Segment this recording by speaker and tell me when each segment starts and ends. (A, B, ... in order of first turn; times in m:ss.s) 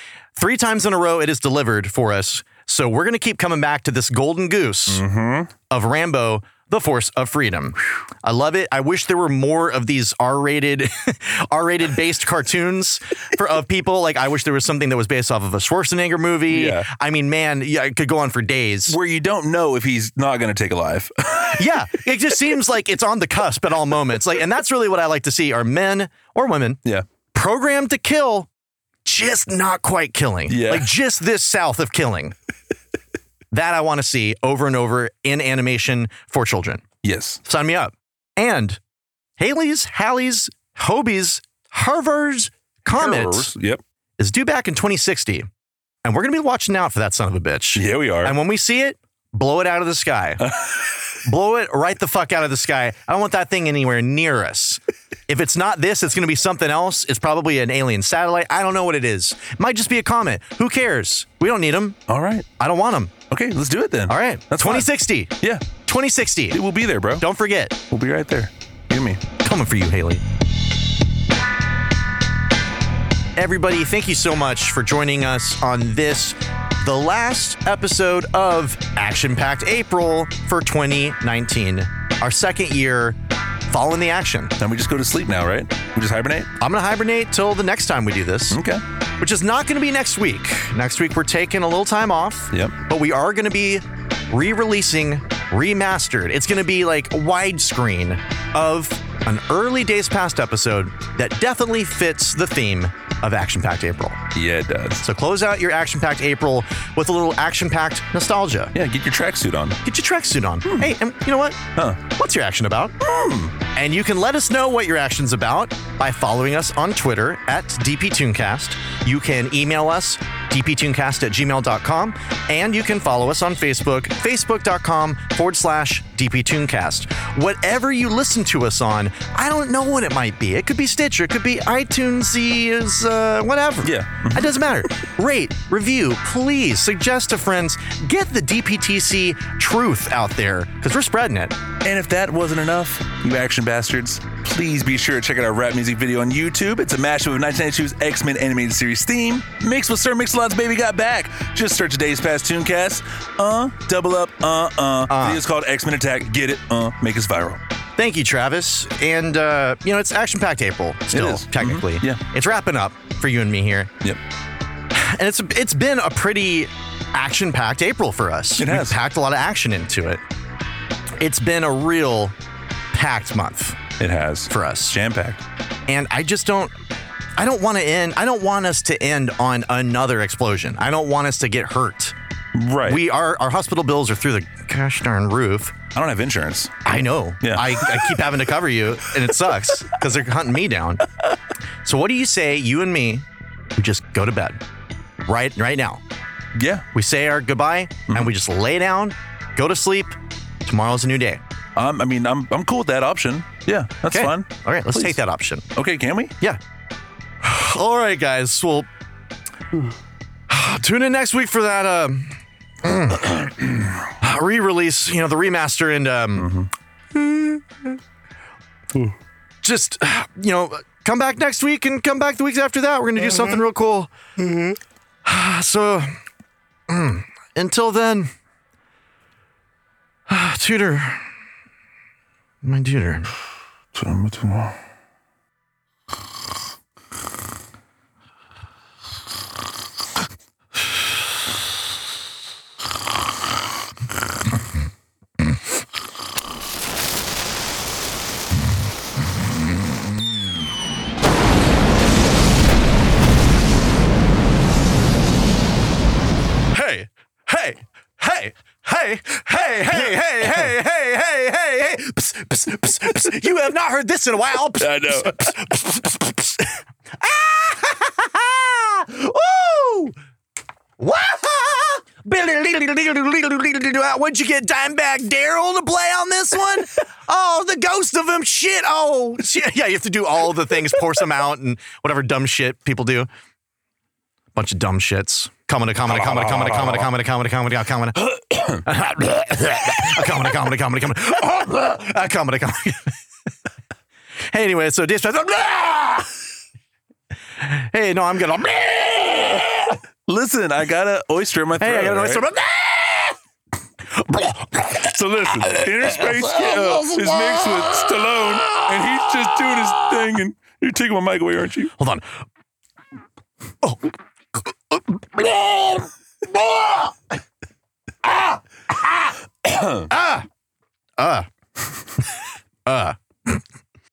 0:00.4-0:05.0 A
0:04.9-0:05.5 B
0:05.7-0:19.0 A
0:16.5-0:16.9 B
0:18.9-0:21.9 B
0:21.5-0:26.8 A
0:27.3-0:28.5 A
0:29.0-0:32.3 A
0:30.5-0:30.9 B
0:33.5-0:36.8 A
0:37.0-0:37.4 B
0:37.4-0:38.8 A
0:39.4-0:43.5 A
0:43.0-0:43.8 B
0:44.2-0:45.5 A
0:46.0-0:50.4 A
0:47.8-0:48.4 B
0:50.4-0:50.8 B
0:51.2-1:02.0 A
1:02.1-1:02.5 B
1:02.6-1:03.1 A
1:03.3-1:05.7 B
1:04.1-1:05.3 A
1:05.8-1:06.6 A
1:06.5-1:07.3 B
1:07.2-1:07.8 A
1:07.9-1:09.2 B
1:09.4-1:10.2 A
1:13.4-1:24.6 A
1:24.6-1:26.5 B
1:26.6-1:28.6 A
1:28.5-1:28.8 B
1:29.2-1:44.2 A
1:44.3-1:45.0 B
1:45.0-1:48.7 A
1:48.7-1:49.8 B
1:49.8-1:53.0 A
1:50.7-1:50.9 B
1:53.0-1:53.6 B
1:53.7-2:21.6 A
2:13.8-2:14.6 B
2:21.8-2:37.6 B
2:35.1-2:35.4 A
2:38.0-2:43.9 A
2:41.1-2:42.2 B
2:44.9-2:50.2 A
2:48.6-2:49.0 B
2:51.2-2:52.3 A
2:52.9-2:53.8 A
2:54.0-2:55.4 B
2:54.5-2:55.0 A
2:55.9-2:56.7 A
2:57.4-3:02.2 A
3:02.6-3:03.0 B
3:02.8-3:05.8 A
3:05.9-3:06.7 B
3:06.8-3:11.0 A
3:07.4-3:08.1 B
3:11.8-3:13.2 A
3:13.8-3:14.6 A
3:15.3-3:16.0 A
3:16.6-3:16.8 B
3:16.9-3:21.4 A
3:21.8-3:25.2 B
3:24.1-3:25.7 A
3:25.8-3:26.4 B
3:27.4-3:28.9 A
3:30.5-3:38.0 A
3:36.4-3:36.7 B
3:39.6-3:46.1 A
3:46.9-3:48.3 A
3:50.3-3:51.2 A
3:52.6-3:53.3 A
3:53.9-3:54.8 B
4:16.7-4:30.2 A
4:24.8-4:25.5 B
4:31.0-4:43.3 A
4:44.6-4:53.1 A
4:46.0-4:47.1 B
4:54.5-4:56.3 A
4:57.6-4:59.9 A
5:00.3-5:02.5 B
5:01.8-5:03.3 A
5:04.3-5:04.9 A
5:04.9-5:11.9 B
5:12.0-5:12.2 A
5:13.8-5:14.1 A
5:14.9-5:17.2 A
5:18.3-5:19.1 A
5:19.6-5:20.1 B
5:20.1-5:20.5 A
5:21.2-5:21.5 A
5:22.9-5:23.6 A